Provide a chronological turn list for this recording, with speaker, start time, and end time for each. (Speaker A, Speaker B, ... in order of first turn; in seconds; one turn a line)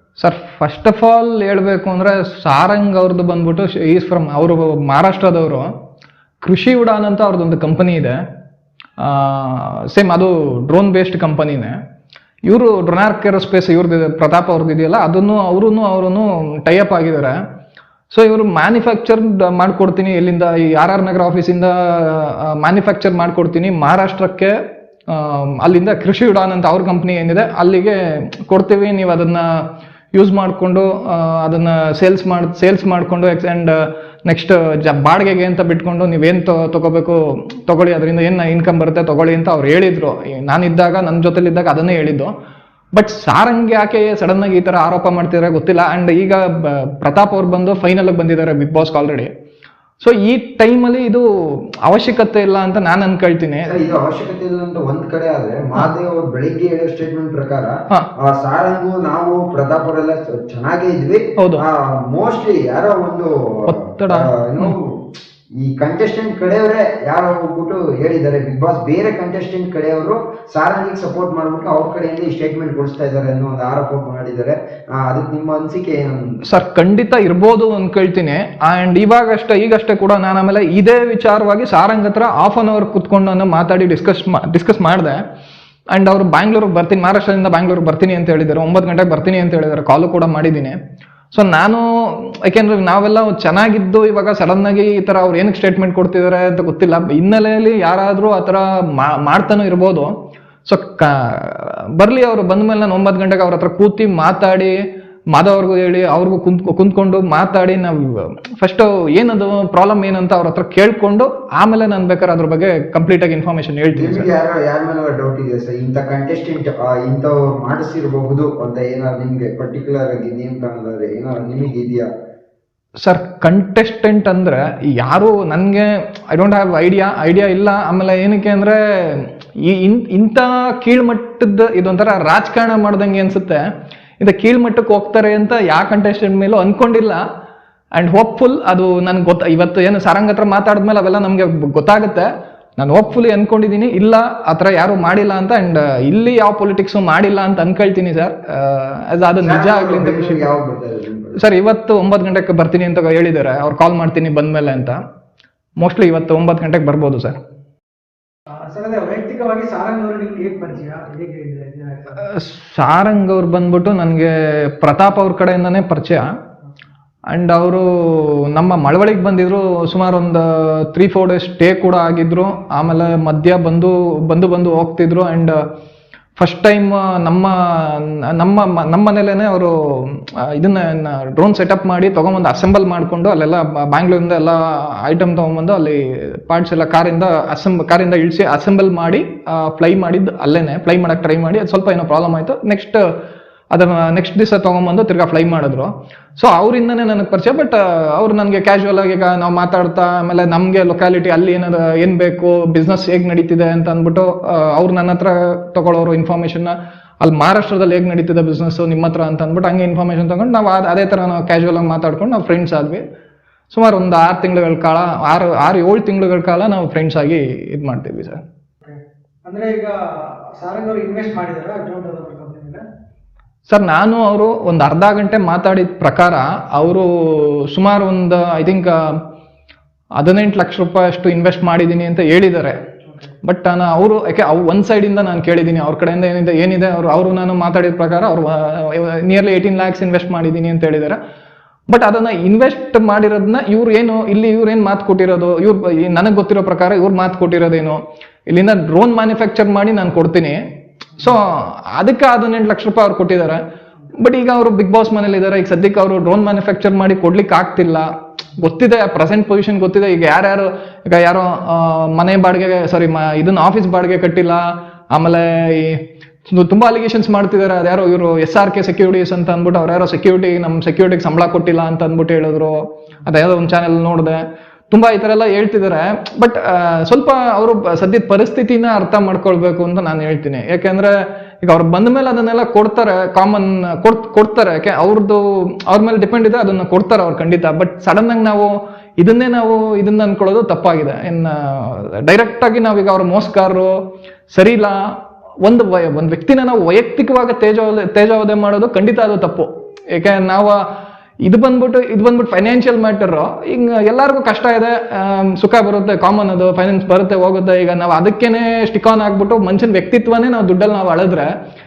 Speaker A: 0.2-5.7
Speaker A: 6.4-8.2
Speaker A: 9.0-11.8
Speaker A: 12.5-17.4
Speaker A: 18.1-24.6
Speaker A: 25.1-42.3
Speaker A: 42.9-49.3
Speaker A: 50.0-51.3
Speaker A: 51.9-53.7
Speaker B: 53.7-65.0
Speaker A: 61.4-61.6
Speaker A: 63.7-64.7
Speaker B: 65.6-76.4
Speaker A: 76.4-85.2
Speaker A: 85.9-90.8
Speaker A: 91.3-100.1
Speaker A: 100.7-104.8
Speaker A: 105.3-114.3
Speaker B: 113.9-122.1
Speaker A: 123.0-133.6
Speaker A: 134.2-137.2
Speaker A: 138.0-150.4
Speaker B: 149.4-151.4
Speaker A: 151.4-155.0
Speaker A: 155.8-157.4
Speaker C: 158.5-162.2
Speaker A: 162.2-166.3
Speaker A: 167.3-175.6
Speaker A: 176.4-193.1
Speaker A: 193.7-213.0
Speaker A: 213.7-218.4
Speaker C: 218.8-222.8
Speaker A: 223.7-229.2
Speaker A: 230.2-232.8
Speaker A: 233.4-241.2
Speaker A: 241.9-250.6
Speaker A: 251.2-253.6
Speaker A: 254.2-294.0
Speaker A: 294.5-300.8
Speaker A: 301.4-311.5